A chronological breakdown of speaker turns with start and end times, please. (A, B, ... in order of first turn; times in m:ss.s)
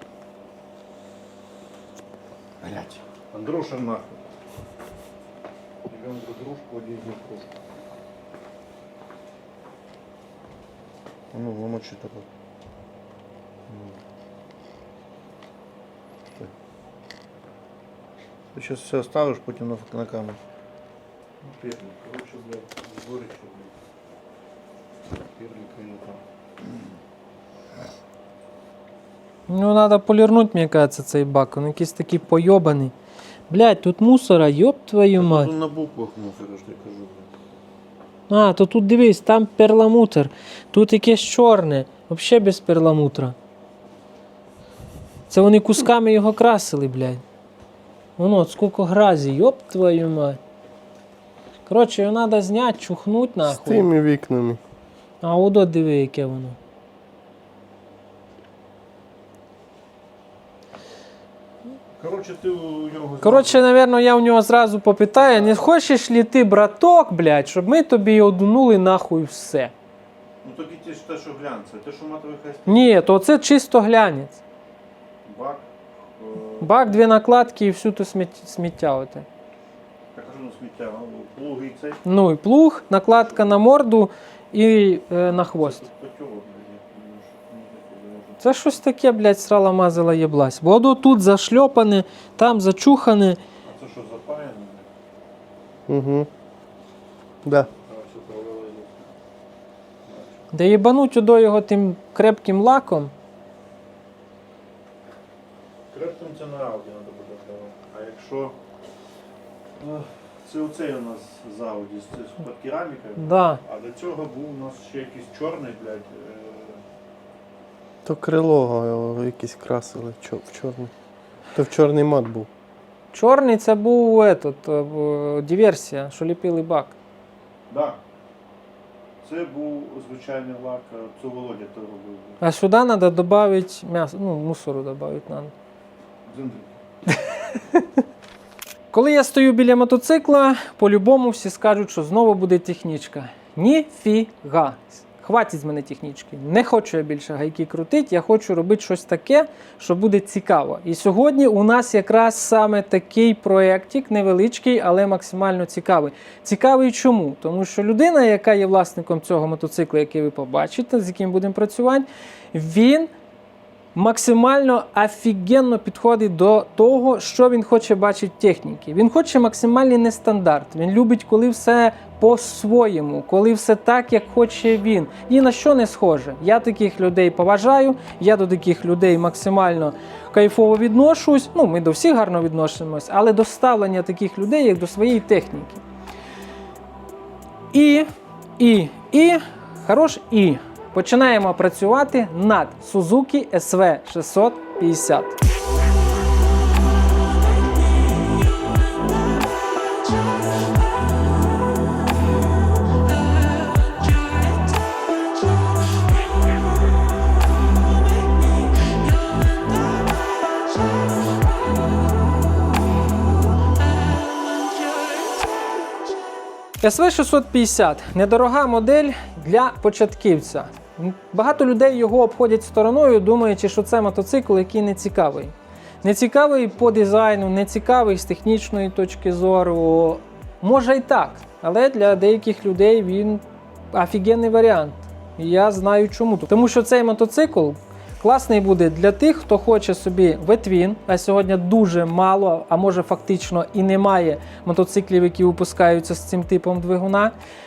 0:02.6-0:04.2 A
0:05.9-0:07.5 A
0:11.3-0:12.2 A
0:13.7-0:14.0 A
0:18.5-0:20.4 A
0:21.4-0:23.7 A
0:25.3-0:26.2 A
0:29.5-0:32.9 B
0:33.5-0:35.5 B
0:35.2-0:37.3 A
0:38.3-0:43.3 B
0:45.3-0:47.2 B
0:48.2-0:50.4 B
0:51.6-0:53.9 B
0:53.4-0:54.6 C
0:55.2-0:56.6 B
1:02.0-1:03.6 A
1:03.2-1:09.7 B
1:05.2-1:05.6 A
1:10.4-1:12.9 A
1:12.7-1:14.4 B
1:15.2-1:16.7 A
1:16.6-1:19.2 B
1:20.1-1:22.0 A
1:22.0-1:25.8 B
1:25.4-1:28.8 A
1:28.4-1:33.4 B
1:33.6-1:34.9 A
1:35.9-1:36.3 C
1:37.4-1:37.7 C
1:37.7-1:39.1 A
1:40.0-1:40.4 A
1:40.5-1:43.1 B
1:45.9-1:48.6 A
1:49.8-1:56.8 A
1:53.2-1:53.6 B
1:58.0-2:00.9 C
2:01.5-2:02.5 C
2:03.1-2:06.9 B
2:07.7-2:08.0 A
2:09.2-2:12.4 A
2:12.4-2:15.5 B
2:16.3-2:16.7 A
2:17.1-2:17.8 B
2:18.9-2:43.1 B
2:43.9-3:05.8 B
3:07.7-3:08.1 B
3:08.6-3:15.4 B
3:36.8-4:07.3 B